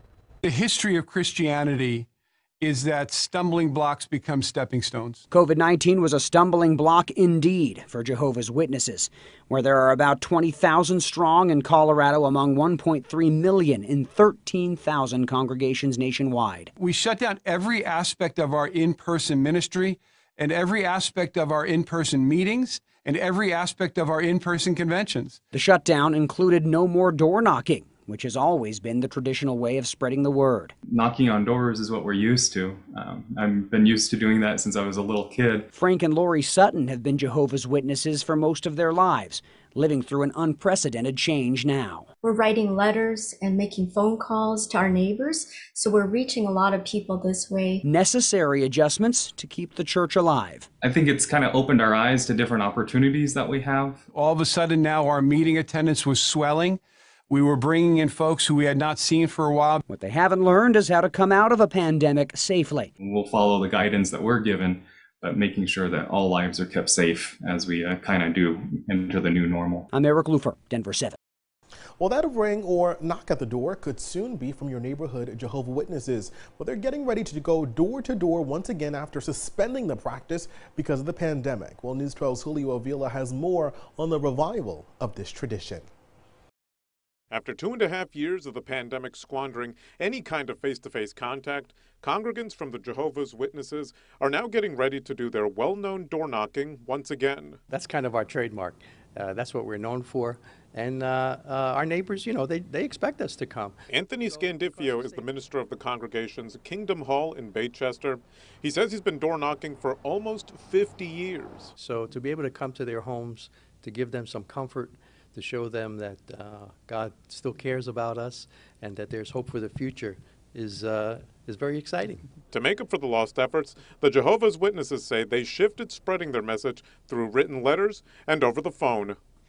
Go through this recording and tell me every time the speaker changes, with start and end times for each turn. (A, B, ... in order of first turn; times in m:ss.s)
0:00.4-0:02.1 A
0:02.6-0:05.2 A
0:05.3-0:16.7 B
0:16.8-0:25.4 A
0:25.5-0:30.7 B
0:30.9-0:35.6 C
0:35.7-0:42.1 B
0:42.2-0:47.8 D
0:47.8-0:50.6 B
0:50.8-0:54.0 C
0:54.1-0:59.8 A
0:59.9-1:02.9 B
1:03.0-1:09.8 C
1:09.9-1:11.2 B
1:12.0-1:25.8 E
1:27.3-1:37.6 F
1:37.7-1:43.8 G
1:43.9-1:51.7 F
1:51.8-2:02.2 G
2:02.5-2:09.2 F